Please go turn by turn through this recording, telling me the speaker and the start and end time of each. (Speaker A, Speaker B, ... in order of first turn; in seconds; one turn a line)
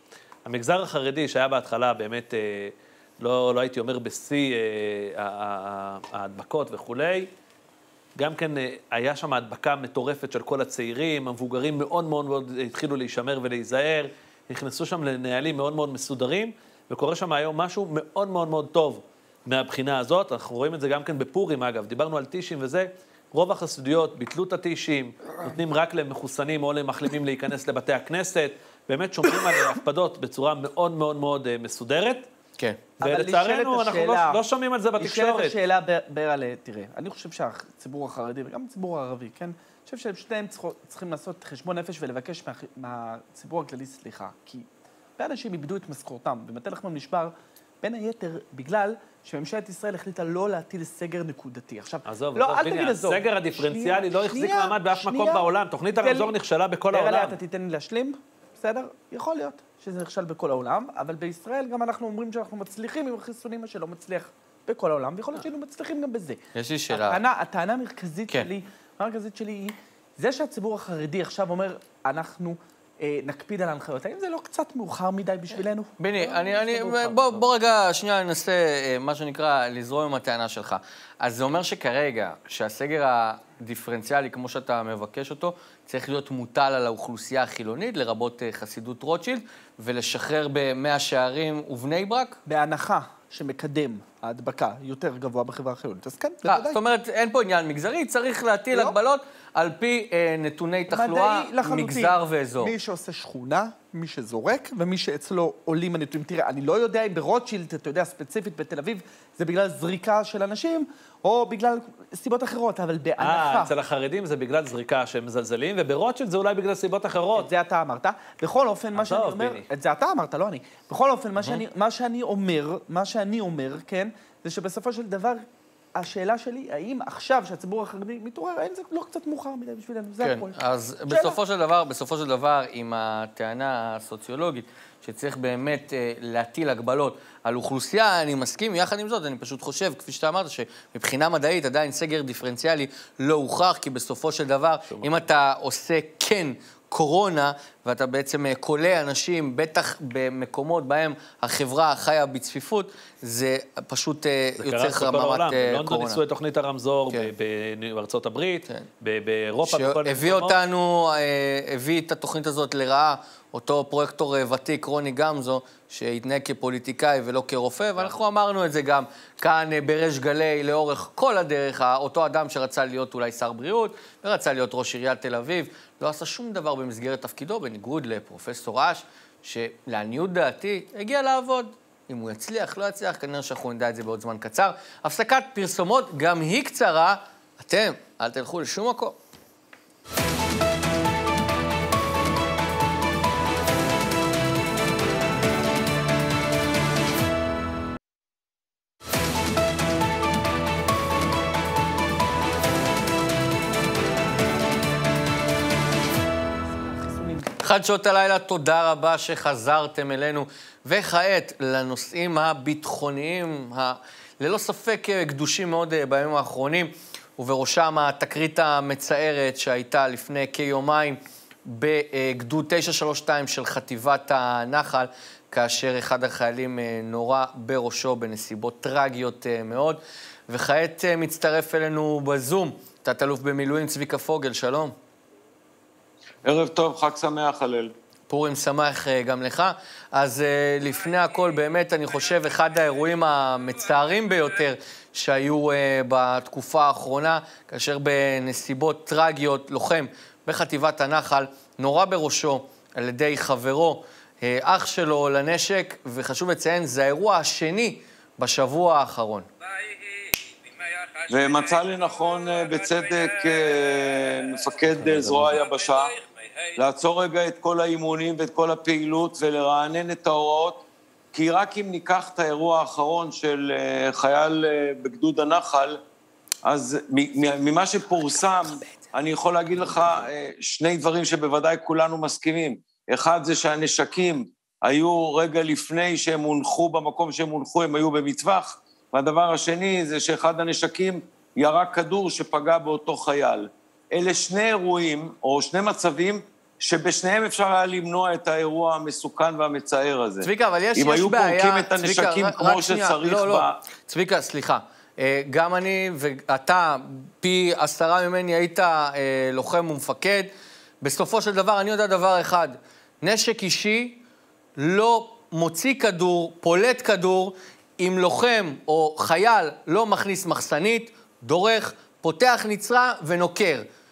Speaker A: 0.5-7.3
Speaker A: 8.2-32.3
Speaker B: 33.0-34.4
Speaker A: 33.0-35.6
Speaker B: 35.0-44.7
Speaker B: 45.2-55.5
Speaker A: 52.1-57.4
Speaker B: 56.0-56.3
Speaker B: 56.9-66.4
Speaker C: 66.5-67.2
Speaker B: 66.9-77.2
Speaker C: 76.0-92.4
Speaker B: 92.5-96.8
Speaker C: 96.5-102.7
Speaker B: 100.9-113.7
Speaker A: 113.2-117.5
Speaker B: 117.3-125.4
Speaker A: 119.0-119.7
Speaker B: 126.0-130.5
Speaker C: 130.2-156.2
Speaker B: 131.1-131.4
Speaker A: 154.6-160.6
Speaker C: 159.6-189.2
Speaker B: 206.7-207.5
Speaker C: 207.6-235.0
Speaker D: 236.4-237.9
Speaker C: 238.3-259.5
Speaker D: 261.3-266.2
Speaker C: 264.9-265.6
Speaker D: 266.8-276.0
Speaker D: 276.6-303.8
Speaker C: 300.4-310.5
Speaker C: 311.0-314.2
Speaker C: 314.8-323.9